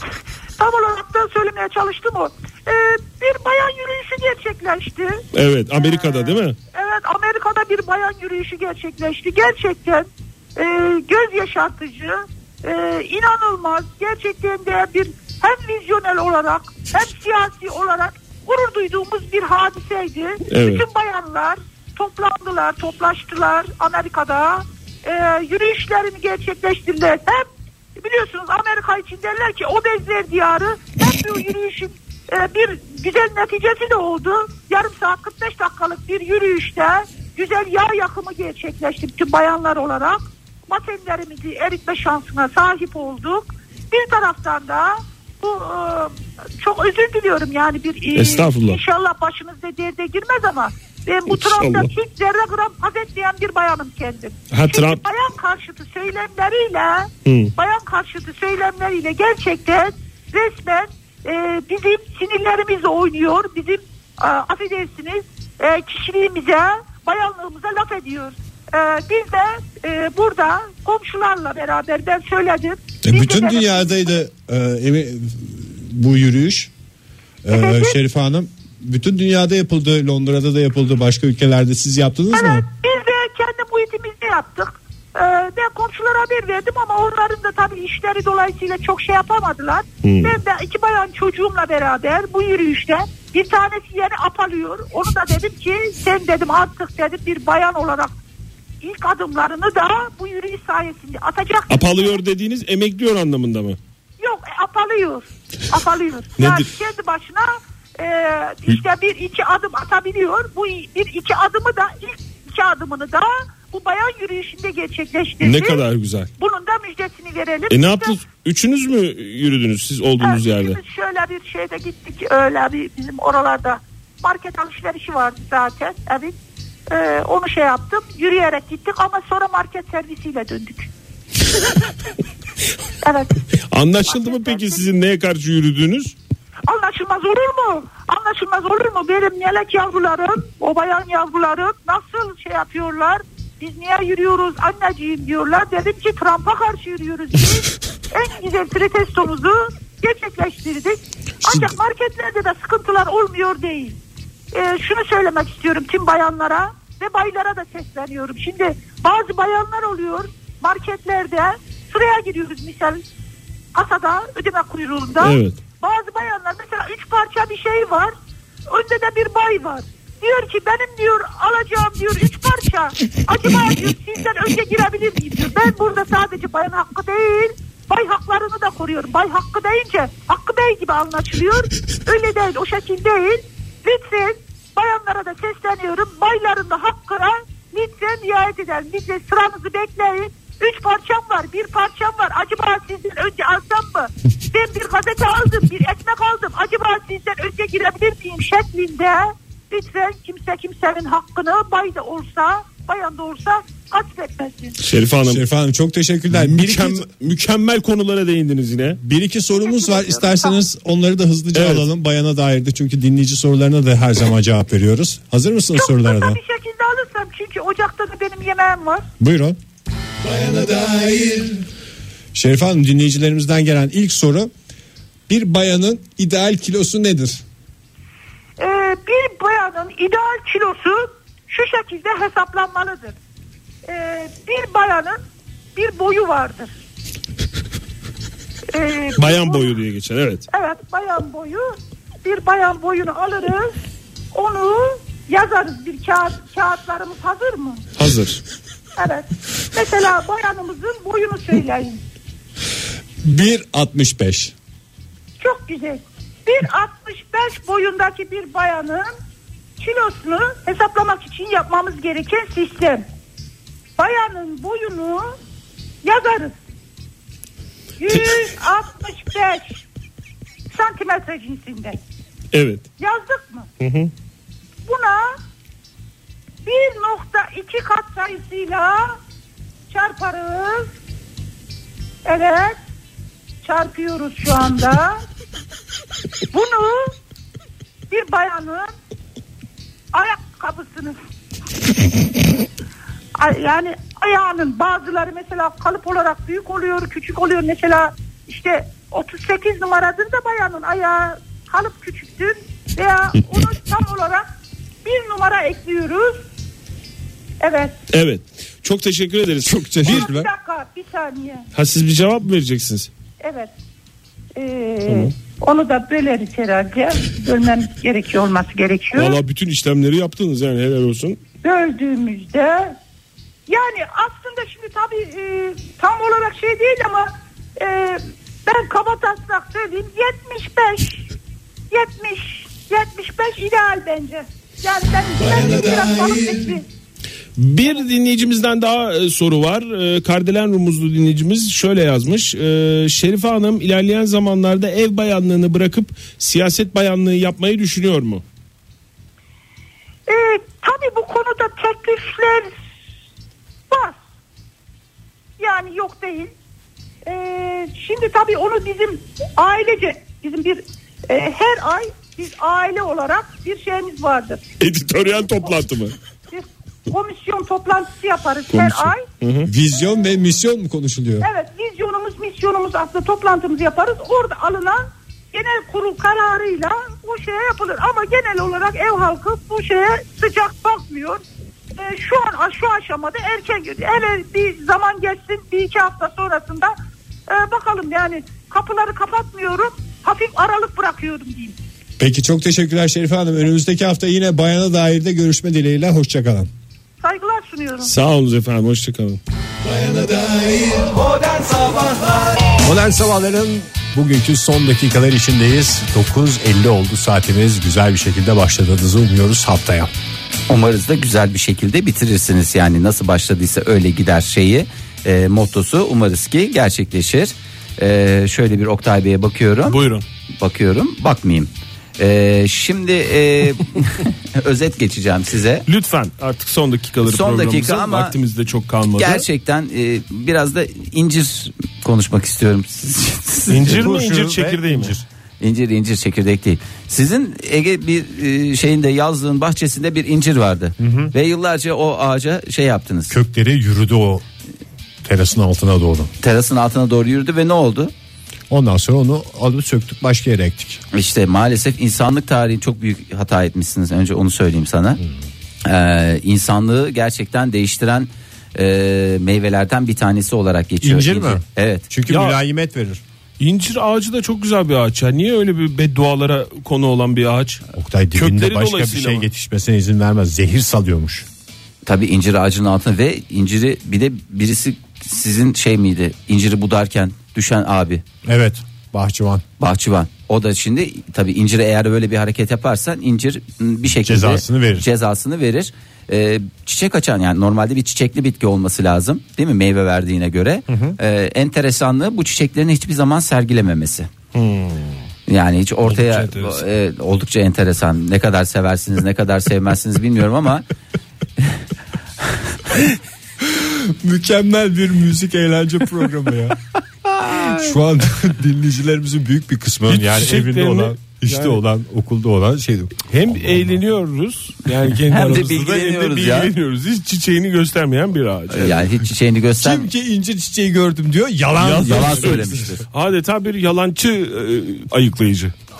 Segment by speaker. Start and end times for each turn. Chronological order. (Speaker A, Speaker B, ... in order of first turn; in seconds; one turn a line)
Speaker A: 0.6-5.2
Speaker B: 5.3-6.6
Speaker A: 5.7-74.0
Speaker B: 20.5-20.8
Speaker B: 48.1-48.8
Speaker B: 51.3-51.9
Speaker B: 54.5-55.0
Speaker B: 57.2-57.5
Speaker C: 73.0-76.7
Speaker C: 77.4-82.6
Speaker A: 77.5-78.0
Speaker A: 82.3-98.1
Speaker B: 90.0-90.3
Speaker A: 98.8-102.2
Speaker B: 101.7-103.8
Speaker A: 104.2-115.8
Speaker B: 106.4-106.7
Speaker B: 115.4-116.3
Speaker A: 116.4-118.2
Speaker B: 117.7-120.8
Speaker A: 120.2-126.3
Speaker A: 126.9-130.9
Speaker A: 133.0-133.4
Speaker B: 133.7-136.1
Speaker A: 134.1-134.8
Speaker A: 136.7-154.0
Speaker A: 154.5-163.0
Speaker A: 163.7-168.1
Speaker B: 165.2-165.6
Speaker A: 168.7-204.8
Speaker B: 204.8-205.4
Speaker C: 205.2-207.1
Speaker B: 206.3-209.0
Speaker C: 209.0-216.4
Speaker A: 209.6-210.6
Speaker B: 211.5-211.8
Speaker A: 215.8-219.1
Speaker C: 219.2-219.6
Speaker C: 220.2-221.6
Speaker C: 222.3-224.5
Speaker C: 225.3-227.4
Speaker A: 228.6-233.2
Speaker A: 233.8-235.2
Speaker A: 235.8-236.7
Speaker A: 238.7-239.8
Speaker B: 239.2-240.4
Speaker A: 240.5-243.8
Speaker A: 244.3-247.9
Speaker B: 248.0-248.4
Speaker A: 249.0-252.0
Speaker C: 253.2-254.5
Speaker A: 255.4-259.1
Speaker A: 259.8-263.1
Speaker A: 264.0-265.3
Speaker A: 266.0-266.6
Speaker A: 268.0-269.8
Speaker A: 270.7-272.0
Speaker B: 272.5-272.8
Speaker A: 273.0-273.7
Speaker B: 273.8-274.1
Speaker A: 274.9-275.4
Speaker A: 276.6-279.2
Speaker A: 279.9-280.9
Speaker A: 282.2-282.8
Speaker A: 283.6-285.2
Speaker A: 286.5-287.1
Speaker A: 288.1-288.9
Speaker A: 290.1-291.2
Speaker A: 293.4-304.4
Speaker A: 305.0-306.4
Speaker A: 307.6-308.0
Speaker B: 308.1-310.3
Speaker C: 309.6-310.5
Speaker A: 310.0-311.7
Speaker B: 311.7-313.1
Speaker A: 313.4-313.7
Speaker A: 314.5-319.4
Speaker B: 315.0-315.3
Speaker B: 319.1-321.4
Speaker A: 321.6-323.0
Speaker A: 323.7-331.3
Speaker A: 331.9-336.8
Speaker B: 337.6-348.4
Speaker A: 350.3-352.7
Speaker A: 353.9-354.2
Speaker A: 355.6-356.5
Speaker A: 357.2-364.6
Speaker B: 364.8-366.1
Speaker A: 366.5-369.2
Speaker B: 368.7-369.7
Speaker C: 369.6-371.5
Speaker A: 371.4-381.4
Speaker A: 382.0-386.9
Speaker A: 387.5-391.8
Speaker C: 392.2-396.7
Speaker A: 397.2-398.1
Speaker B: 398.0-399.4
Speaker C: 399.8-401.2
Speaker C: 402.8-410.1
Speaker D: 410.7-420.0
Speaker B: 419.9-420.2
Speaker D: 420.6-425.9
Speaker B: 425.9-429.5
Speaker D: 427.2-428.3
Speaker D: 429.1-434.1
Speaker B: 433.7-435.1
Speaker C: 433.8-435.2
Speaker D: 435.6-443.4
Speaker C: 441.0-441.3
Speaker C: 443.3-444.4
Speaker C: 445.2-446.3
Speaker D: 446.4-448.1
Speaker C: 448.7-451.0
Speaker D: 451.1-455.2
Speaker D: 455.8-462.1
Speaker C: 461.0-463.2
Speaker B: 462.3-462.6
Speaker B: 463.6-467.8
Speaker C: 467.9-471.4
Speaker B: 468.3-469.5
Speaker D: 472.0-478.2
Speaker C: 478.4-479.6
Speaker D: 479.8-494.3
Speaker C: 484.1-485.1
Speaker C: 490.9-491.2
Speaker B: 494.5-495.2
Speaker D: 495.5-500.9
Speaker B: 496.0-496.8
Speaker C: 503.6-513.9
Speaker B: 510.1-511.8
Speaker B: 513.3-519.1
Speaker D: 515.2-516.7
Speaker D: 518.7-520.1
Speaker C: 519.8-523.0
Speaker B: 521.8-525.7
Speaker D: 522.0-523.0